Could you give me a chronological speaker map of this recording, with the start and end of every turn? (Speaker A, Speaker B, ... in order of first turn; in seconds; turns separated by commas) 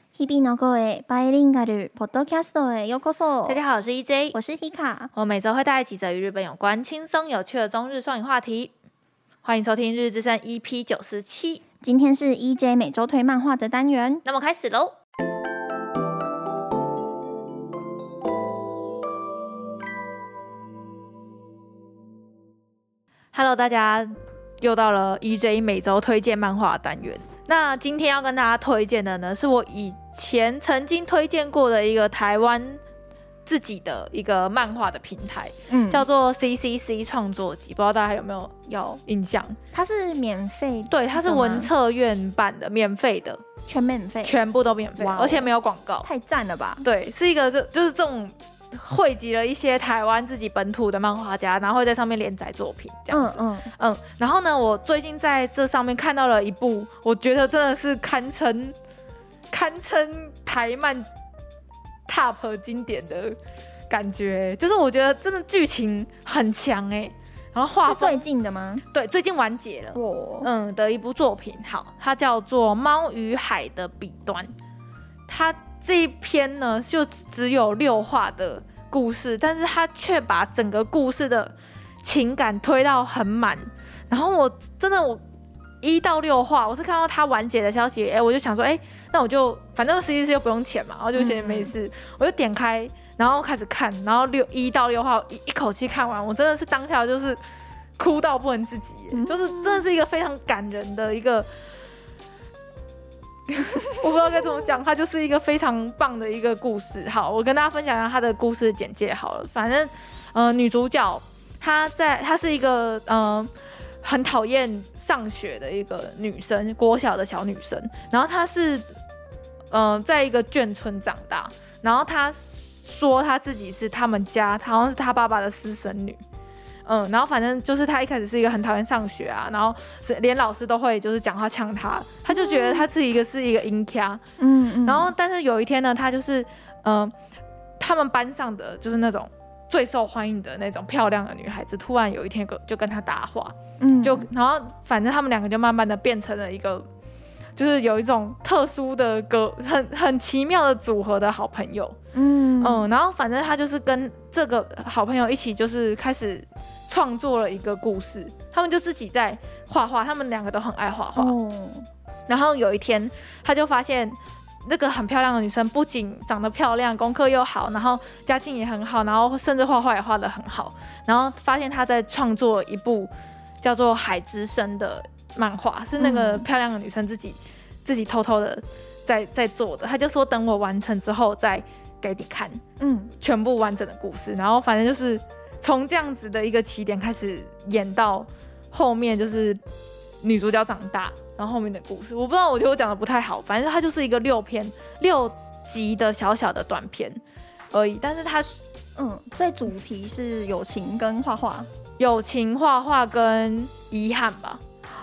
Speaker A: 0.2-3.6, Speaker B: 3.5-4.4, Speaker A: 4.3-5.1, Speaker B: 5.1-8.7, Speaker B: 9.4-11.6, Speaker A: 11.8-14.2, Speaker B: 14.2-15.0, Speaker B: 23.3-32.8, Speaker B: 33.5-38.5, Speaker A: 35.7-36.1, Speaker A: 38.7-39.0, Speaker B: 39.1-39.6, Speaker A: 39.7-41.7, Speaker B: 40.9-43.4, Speaker A: 43.7-44.4, Speaker B: 44.2-46.1, Speaker A: 45.0-46.9, Speaker B: 46.8-58.8, Speaker A: 53.1-53.7, Speaker B: 59.5-61.1, Speaker B: 62.1-63.4, Speaker B: 63.9-68.2, Speaker A: 67.9-68.8, Speaker B: 68.9-74.5, Speaker A: 70.0-70.5, Speaker B: 75.3-85.2, Speaker B: 85.8-97.4, Speaker A: 91.2-91.7, Speaker B: 98.0-101.5, Speaker A: 99.1-99.8, Speaker A: 103.5-104.0, Speaker B: 104.0-118.9, Speaker B: 119.7-126.2, Speaker B: 126.9-134.2, Speaker A: 132.3-132.9, Speaker A: 134.4-135.1, Speaker B: 134.8-137.1, Speaker B: 137.8-146.9, Speaker A: 143.8-144.3, Speaker B: 147.6-152.0, Speaker A: 152.1-152.9, Speaker B: 152.6-161.3, Speaker A: 161.2-161.9, Speaker B: 162.3-182.6, Speaker A: 176.0-176.4, Speaker A: 182.8-183.1, Speaker B: 183.2-189.6, Speaker B: 190.2-197.2, Speaker B: 197.7-198.6, Speaker A: 199.0-201.7, Speaker B: 202.0-204.6